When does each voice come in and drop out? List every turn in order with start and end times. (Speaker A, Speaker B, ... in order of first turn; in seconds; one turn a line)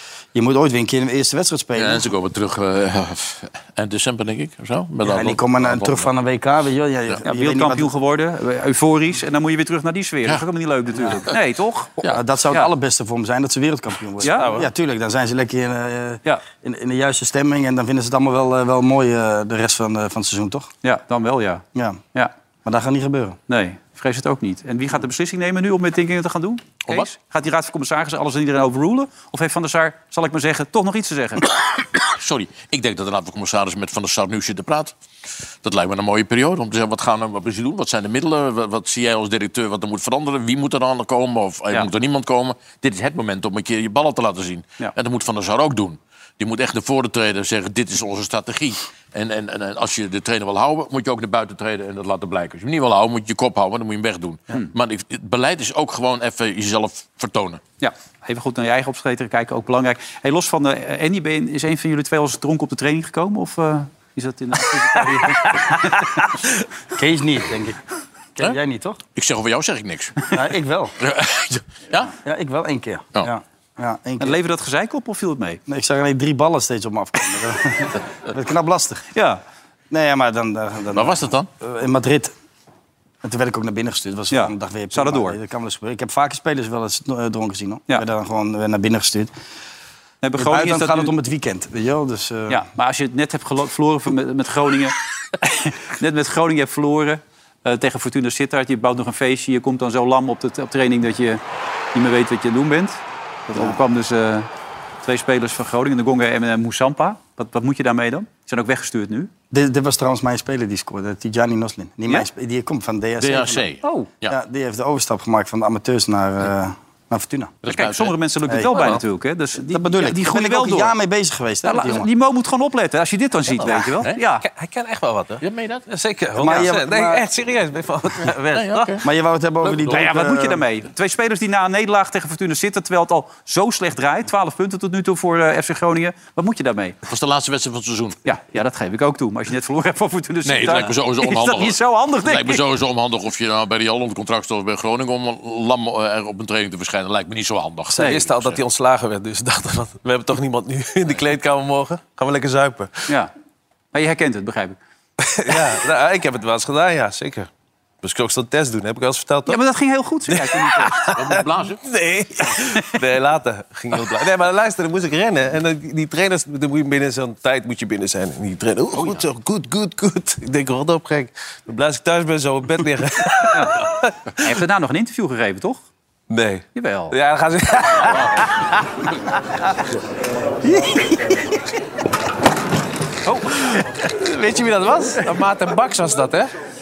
Speaker A: 0.3-2.1
Speaker B: 1.8-6.1
Speaker A: 5.0-7.9
Speaker C: 7.2-11.9
Speaker A: 12.0-20.7
Speaker C: 14.2-14.5
Speaker D: 14.3-14.7
Speaker C: 20.8-22.3
Speaker A: 21.7-22.0
Speaker A: 22.6-23.4
Speaker C: 23.5-31.4
Speaker B: 32.1-34.9
Speaker B: 35.6-57.6
Speaker C: 57.8-66.1
Speaker A: 66.9-67.8
Speaker A: 68.3-69.0
Speaker B: 69.1-70.3
Speaker A: 70.3-70.9
Speaker B: 71.0-72.1
Speaker A: 72.1-74.4
Speaker C: 74.2-75.6
Speaker A: 75.7-79.0
Speaker C: 79.1-79.4
Speaker A: 79.9-82.3
Speaker B: 80.9-81.5
Speaker A: 83.2-89.3
Speaker C: 84.3-85.4
Speaker C: 90.2-91.1
Speaker A: 90.4-92.6
Speaker C: 92.5-101.4
Speaker C: 101.9-104.5
Speaker A: 103.5-103.8
Speaker C: 105.0-109.3
Speaker A: 109.5-113.6
Speaker B: 113.2-114.3
Speaker C: 113.8-114.1
Speaker A: 114.3-117.5
Speaker B: 117.6-118.1
Speaker C: 117.7-120.9
Speaker A: 118.5-118.7
Speaker D: 118.7-119.0
Speaker A: 119.6-122.1
Speaker C: 121.6-124.4
Speaker D: 123.6-123.9
Speaker D: 124.4-129.0
Speaker B: 125.4-125.8
Speaker A: 126.4-127.2
Speaker B: 128.5-129.0
Speaker A: 129.0-130.6
Speaker C: 129.6-137.0
Speaker B: 137.1-138.2
Speaker C: 138.2-142.6
Speaker B: 140.4-148.6
Speaker D: 147.9-153.1
Speaker C: 153.9-154.8
Speaker D: 155.2-157.5
Speaker D: 158.0-159.6
Speaker C: 159.5-161.1
Speaker D: 160.3-174.1
Speaker B: 161.1-161.8
Speaker B: 168.9-169.2
Speaker C: 173.5-173.8
Speaker C: 174.4-175.8
Speaker D: 176.3-178.5
Speaker C: 176.7-177.1
Speaker A: 180.9-181.3
Speaker D: 184.0-186.5